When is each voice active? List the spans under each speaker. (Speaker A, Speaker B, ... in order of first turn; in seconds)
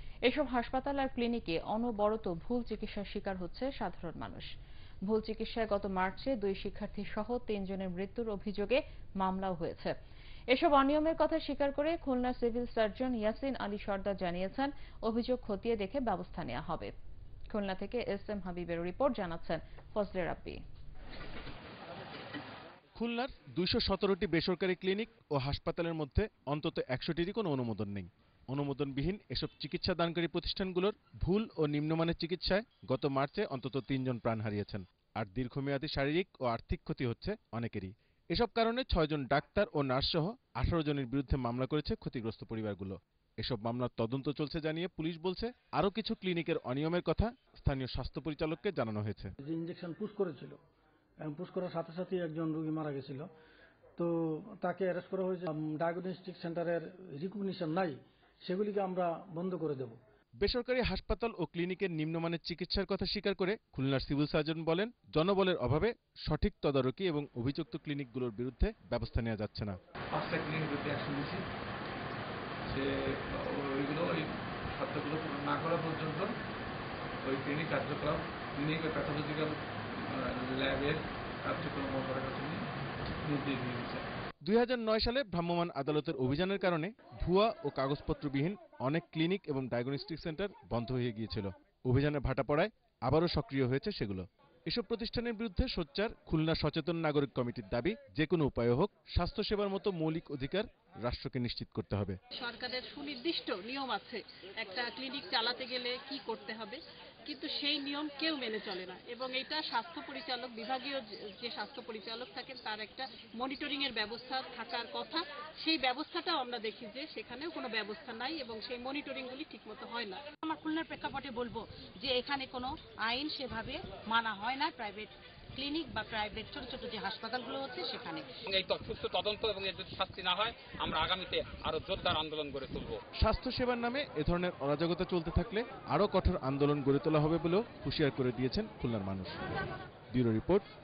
Speaker A: 0.3-4.5, 5.1-9.9, 10.5-16.9, 17.5-20.6
Speaker B: 22.9-49.3, 60.4-69.8, 84.4-102.2, 133.2-139.4, 140.1-140.6
Speaker C: 49.4-50.6, 51.2-53.3, 54.0-60.0
Speaker D: 70.1-71.4, 72.7-76.3, 77.2-82.6, 83.2-84.0
Speaker E: 102.3-120.2
Speaker F: 120.4-128.3
Speaker G: 128.4-133.0